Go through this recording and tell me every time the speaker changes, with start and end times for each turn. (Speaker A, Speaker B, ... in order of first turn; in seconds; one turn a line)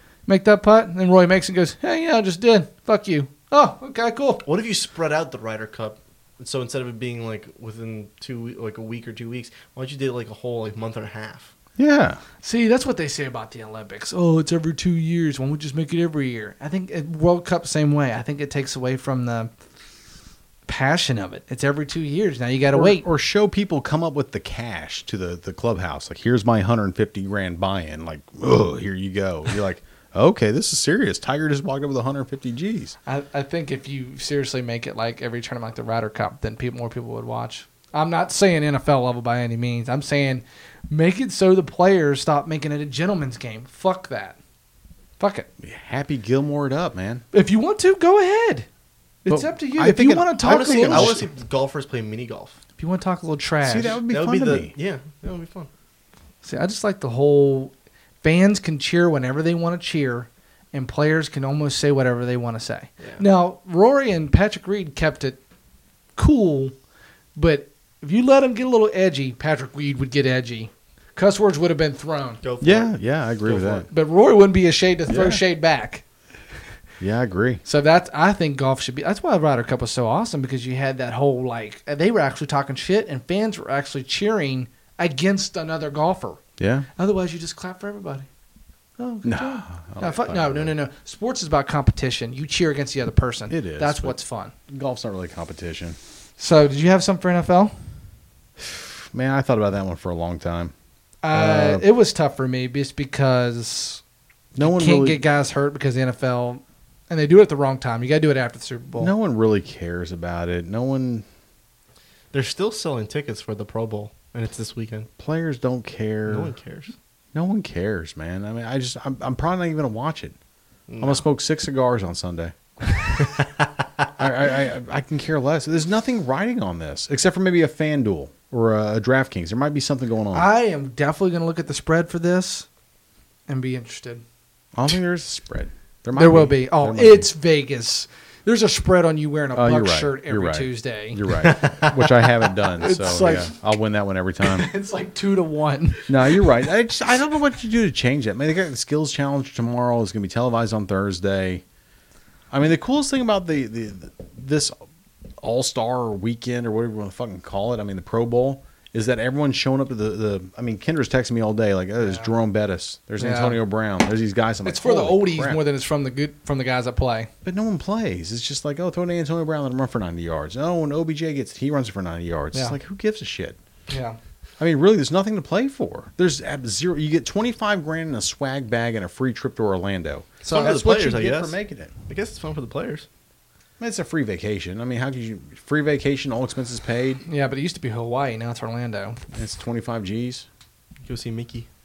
Speaker A: 0.3-4.4
Speaker B: 4.4-11.5
Speaker C: 11.8-12.2
Speaker A: 12.4-19.5
Speaker A: 20.7-23.0
Speaker C: 22.7-32.9
Speaker A: 33.0-44.4
Speaker A: 45.2-45.5
Speaker C: 45.6-47.2
Speaker A: 47.3-48.6
Speaker A: 49.2-51.2
Speaker C: 49.3-51.2
Speaker B: 50.4-52.6
Speaker A: 52.8-54.0
Speaker C: 53.6-54.7
Speaker B: 54.1-55.7
Speaker A: 56.4-65.4
Speaker A: 66.2-66.7
Speaker A: 67.3-72.4
Speaker B: 72.4-73.9
Speaker C: 72.6-73.9
Speaker A: 73.9-76.0
Speaker C: 75.1-75.4
Speaker C: 77.0-77.6
Speaker A: 77.6-86.4
Speaker C: 86.6-86.9
Speaker A: 87.0-88.3
Speaker A: 89.0-94.5
Speaker C: 89.2-90.7
Speaker C: 93.5-94.2
Speaker C: 94.7-96.0
Speaker A: 96.4-97.8
Speaker C: 98.6-100.7
Speaker A: 101.2-104.0
Speaker C: 101.3-101.8
Speaker C: 104.5-105.2
Speaker A: 104.6-109.1
Speaker C: 109.0-111.2
Speaker B: 112.3-115.1
Speaker C: 115.2-116.5
Speaker B: 116.3-116.9
Speaker C: 117.3-120.3
Speaker B: 120.9-121.2
Speaker C: 121.0-123.0
Speaker C: 124.2-130.5
Speaker A: 130.3-132.7
Speaker A: 133.5-134.2
Speaker C: 134.7-137.3
Speaker A: 136.1-141.9
Speaker C: 139.5-144.7
Speaker B: 141.4-141.8
Speaker A: 142.7-143.5
Speaker A: 144.4-146.4
Speaker C: 146.1-151.6
Speaker C: 152.5-154.7
Speaker C: 155.4-165.6
Speaker A: 162.0-162.3
Speaker A: 163.2-163.6
Speaker A: 164.6-167.3
Speaker C: 167.4-173.6
Speaker A: 173.9-174.2
Speaker C: 174.6-181.9
Speaker B: 180.4-181.6
Speaker A: 180.4-180.7
Speaker B: 182.1-183.1
Speaker C: 183.8-187.2
Speaker A: 187.2-189.2
Speaker C: 189.3-190.4
Speaker B: 191.0-191.7